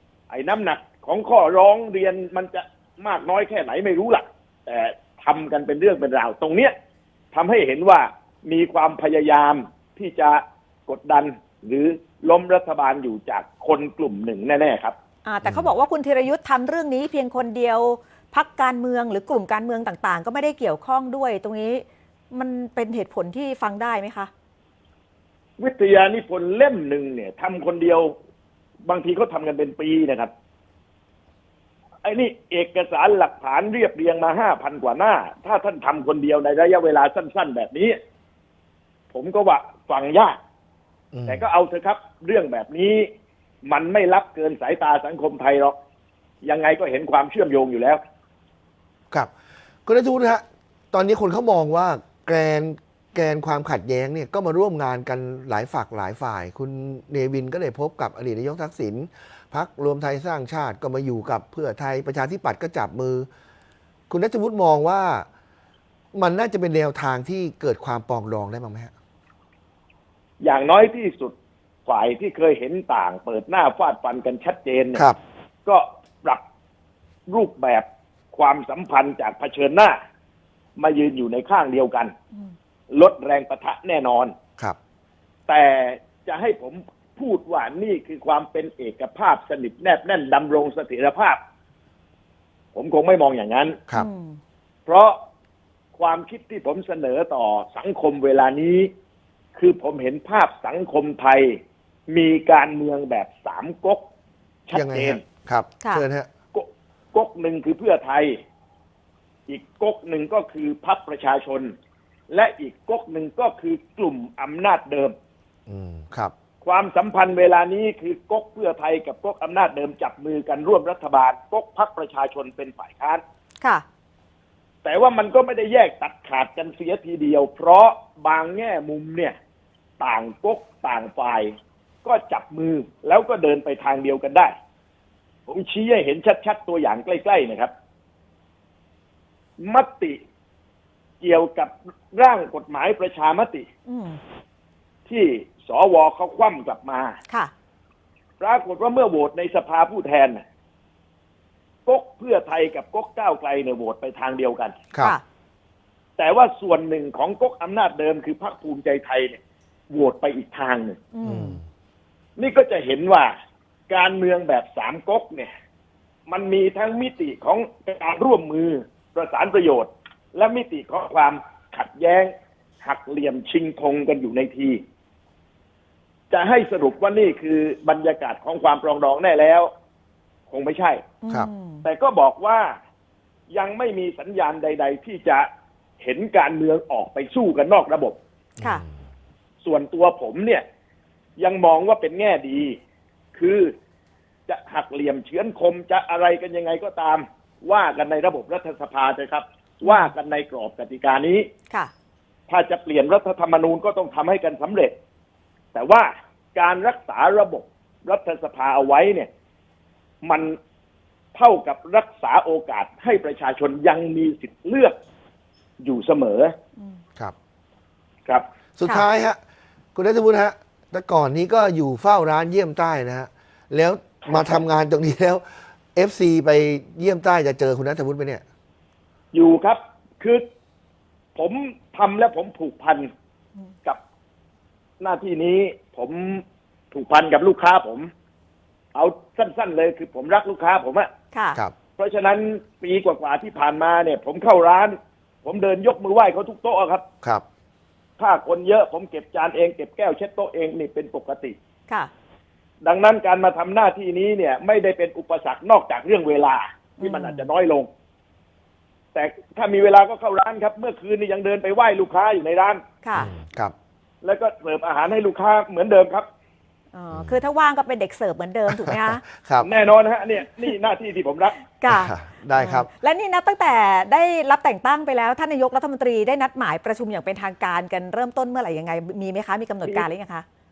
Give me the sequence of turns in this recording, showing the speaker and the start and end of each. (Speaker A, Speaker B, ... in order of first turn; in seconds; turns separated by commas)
Speaker A: 0.3-6.7, Speaker A: 7.3-15.0, Speaker B: 15.2-24.3, Speaker C: 15.4-15.7, Speaker A: 25.6-28.1, Speaker A: 28.9-30.3, Speaker A: 32.0-38.0, Speaker A: 39.1-40.4, Speaker C: 41.1-41.4, Speaker A: 41.2-43.1, Speaker A: 43.7-45.8, Speaker A: 46.4-48.0, Speaker C: 49.9-63.3, Speaker C: 64.1-65.3, Speaker C: 66.1-68.9, Speaker A: 70.4-71.3, Speaker A: 71.9-75.0, Speaker A: 75.7-76.4, Speaker A: 77.3-80.0, Speaker A: 80.8-82.1, Speaker A: 82.9-84.4, Speaker A: 85.5-91.4, Speaker A: 92.8-93.8, Speaker B: 93.9-94.4, Speaker A: 94.9-95.2, Speaker A: 96.0-98.9, Speaker A: 99.6-101.6, Speaker A: 102.1-104.1, Speaker A: 104.7-105.2, Speaker C: 104.7-106.3, Speaker A: 106.5-108.3, Speaker A: 109.5-111.7, Speaker A: 112.3-115.1, Speaker C: 115.7-116.3, Speaker A: 116.6-123.2, Speaker A: 124.8-129.3, Speaker A: 130.0-134.5, Speaker A: 135.5-137.7, Speaker A: 139.6-140.2, Speaker A: 141.2-143.7, Speaker B: 143.9-144.2, Speaker A: 145.1-147.2, Speaker A: 148.4-150.4, Speaker A: 151.9-154.8, Speaker A: 156.2-159.4, Speaker A: 159.9-161.0, Speaker B: 161.1-161.6, Speaker C: 161.2-161.6, Speaker A: 162.4-163.3, Speaker A: 163.9-165.5, Speaker A: 166.3-174.8, Speaker A: 176.3-179.7, Speaker A: 180.5-181.0, Speaker B: 181.2-181.8, Speaker A: 181.8-182.7, Speaker A: 183.5-185.5, Speaker A: 186.0-188.2, Speaker C: 188.6-188.8, Speaker A: 189.6-190.6, Speaker A: 191.4-192.8, Speaker A: 193.3-193.7, Speaker A: 194.5-201.5, Speaker B: 199.8-200.1, Speaker A: 202.5-204.9, Speaker A: 205.7-209.3, Speaker A: 210.2-210.6, Speaker A: 211.3-214.9, Speaker A: 215.8-216.5, Speaker C: 218.8-219.4, Speaker C: 219.9-225.4, Speaker A: 224.2-224.6, Speaker C: 225.9-228.4, Speaker A: 229.3-230.4, Speaker A: 231.4-233.1, Speaker A: 235.0-238.1, Speaker A: 238.9-241.1, Speaker B: 241.3-241.6, Speaker A: 242.0-247.0, Speaker A: 248.2-251.6, Speaker A: 252.8-257.9, Speaker B: 257.0-257.5, Speaker A: 259.1-262.8, Speaker B: 263.0-263.3, Speaker C: 263.2-263.7, Speaker A: 264.2-266.2, Speaker B: 266.9-269.2, Speaker C: 267.1-267.4, Speaker C: 268.9-269.7, Speaker A: 269.6-271.6, Speaker B: 271.8-280.5, Speaker C: 271.9-272.9